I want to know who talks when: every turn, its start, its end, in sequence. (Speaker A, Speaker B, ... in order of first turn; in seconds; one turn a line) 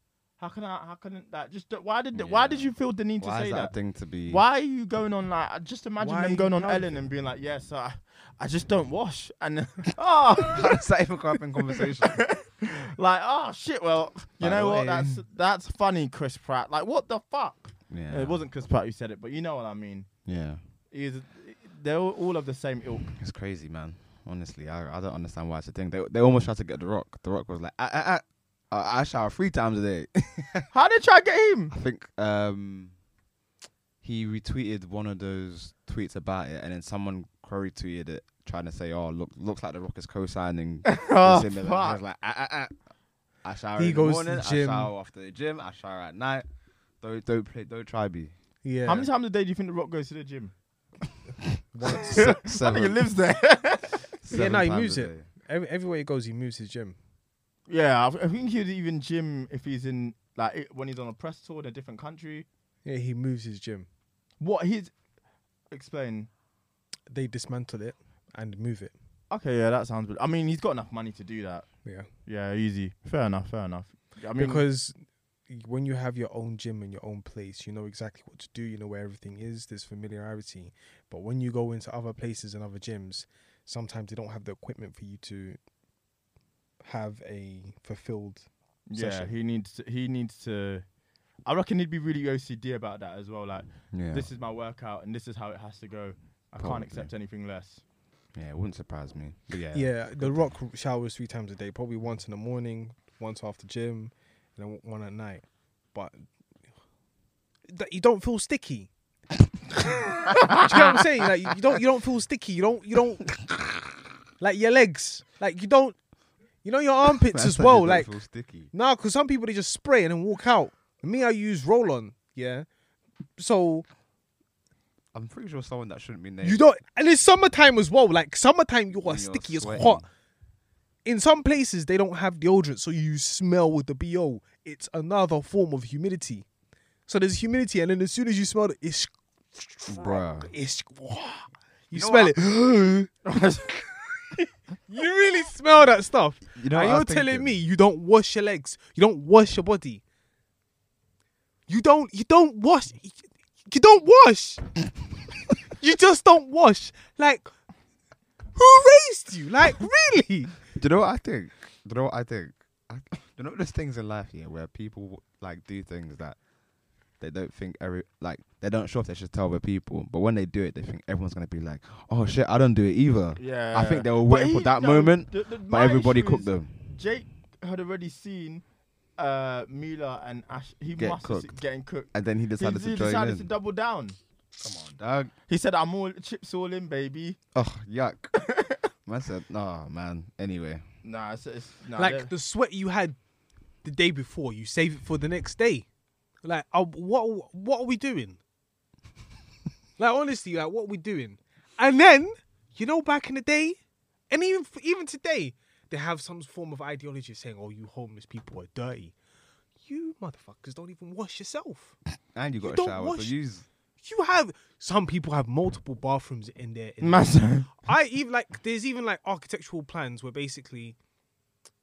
Speaker A: 0.4-10.8
Speaker B: 2.1-4.4
Speaker C: 6.0-7.1
Speaker B: 10.3-12.3
Speaker A: 11.6-20.1
Speaker B: 14.4-15.2
Speaker B: 17.9-18.4
Speaker B: 20.2-20.6
Speaker A: 20.9-23.1
Speaker B: 23.2-30.7
Speaker A: 30.7-31.8
Speaker B: 31.7-32.9
Speaker B: 34.0-42.8
Speaker A: 40.9-42.0
Speaker B: 43.4-46.5
Speaker C: 43.8-44.9
Speaker B: 47.0-48.3
Speaker C: 48.6-49.1
Speaker A: 48.9-50.5
Speaker C: 51.7-52.3
Speaker B: 51.9-53.0
Speaker A: 52.0-54.1
Speaker B: 54.2-55.3
Speaker C: 54.3-57.0
Speaker A: 57.7-62.5
Speaker C: 62.9-63.9
Speaker A: 64.4-64.9
Speaker A: 65.7-66.3
Speaker C: 67.1-69.0
Speaker A: 69.3-74.7
Speaker C: 74.4-85.6
Speaker C: 86.8-89.3
Speaker A: 88.9-90.8
Speaker A: 91.5-97.8
Speaker B: 93.9-94.3
Speaker B: 96.6-97.1
Speaker B: 98.4-100.5
Speaker C: 99.7-106.3
Speaker C: 107.7-108.9
Speaker C: 110.5-113.3
Speaker C: 114.4-116.0
Speaker C: 116.6-118.2
Speaker B: 117.2-118.7
Speaker C: 118.7-122.7
Speaker C: 123.4-123.9
Speaker B: 125.1-126.6
Speaker C: 126.4-130.1
Speaker B: 129.0-130.1
Speaker C: 131.1-136.5
Speaker C: 137.1-143.1
Speaker B: 139.9-140.5
Speaker B: 141.9-142.4
Speaker A: 143.3-144.2
Speaker C: 144.9-150.0
Speaker B: 146.5-147.6
Speaker C: 151.7-154.7
Speaker C: 155.7-157.5
Speaker C: 158.6-160.6
Speaker B: 160.8-166.4
Speaker B: 167.2-176.7
Speaker A: 173.4-178.6
Speaker A: 179.2-184.2
Speaker B: 181.0-181.6
Speaker B: 182.1-183.5
Speaker B: 184.6-185.3
Speaker A: 185.5-187.4
Speaker B: 187.6-188.4
Speaker A: 188.5-188.8
Speaker B: 189.1-190.8
Speaker A: 191.0-192.3
Speaker C: 192.0-193.2
Speaker C: 193.8-195.9
Speaker C: 196.4-198.4
Speaker C: 200.0-203.8
Speaker C: 204.3-209.2
Speaker C: 209.8-212.0
Speaker B: 212.3-213.7
Speaker C: 212.6-213.4
Speaker C: 214.0-221.0
Speaker A: 217.0-217.7